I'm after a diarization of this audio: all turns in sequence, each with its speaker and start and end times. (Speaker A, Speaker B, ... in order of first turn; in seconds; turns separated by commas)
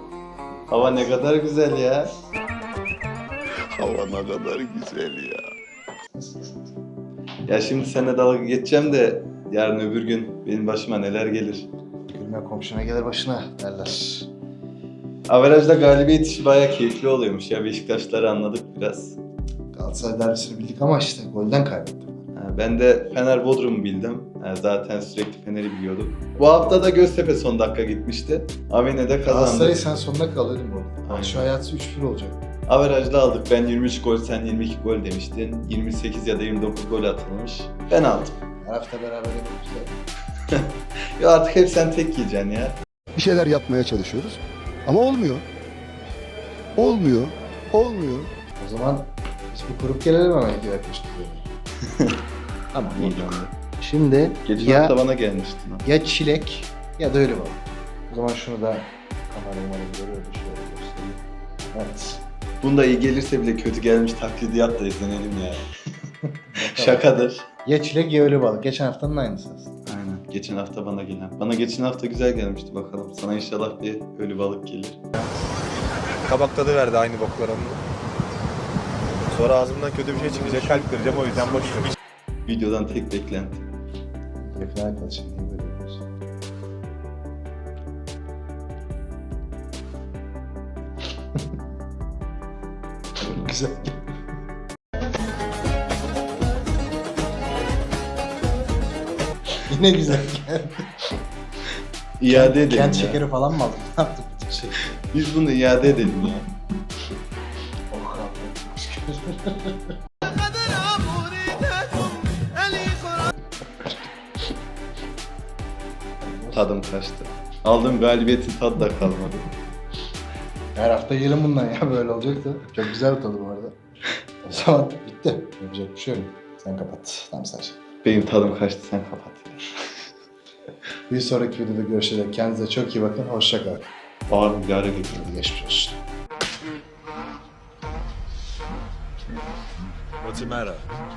Speaker A: 0.7-2.1, Speaker A: 3.6-5.5, Speaker B: 6.2-6.7, Speaker A: 7.5-11.7, Speaker B: 12.1-14.3, Speaker A: 15.3-19.2, Speaker B: 19.7-22.2, Speaker A: 22.3-29.8, Speaker B: 29.2-32.5, Speaker A: 31.1-31.5, Speaker A: 32.7-38.3, Speaker B: 38.6-40.0, Speaker A: 41.2-42.8, Speaker C: 43.1-45.5, Speaker C: 46.8-48.3, Speaker B: 48.6-51.4, Speaker B: 52.7-55.0, Speaker A: 52.9-53.5, Speaker A: 54.5-55.9, Speaker B: 55.8-61.2, Speaker B: 61.7-62.2, Speaker A: 62.6-65.6, Speaker B: 66.5-67.0, Speaker A: 66.6-67.5, Speaker B: 67.6-69.7, Speaker A: 69.9-75.0, Speaker D: 76.2-77.8, Speaker D: 79.3-81.8, Speaker E: 80.2-81.9, Speaker A: 82.5-83.6, Speaker B: 84.4-86.0, Speaker B: 93.2-94.0, Speaker B: 99.5-100.8, Speaker A: 102.2-103.2, Speaker B: 102.3-104.9, Speaker A: 105.1-106.4, Speaker B: 107.9-109.8, Speaker A: 111.0-111.6, Speaker B: 112.6-113.2, Speaker B: 116.2-116.6, Speaker A: 116.5-119.5, Speaker B: 120.7-123.7, Speaker B: 124.4-127.8, Speaker A: 128.0-129.6, Speaker B: 131.1-133.9, Speaker A: 134.3-135.3, Speaker B: 135.2-136.0, Speaker E: 140.2-140.9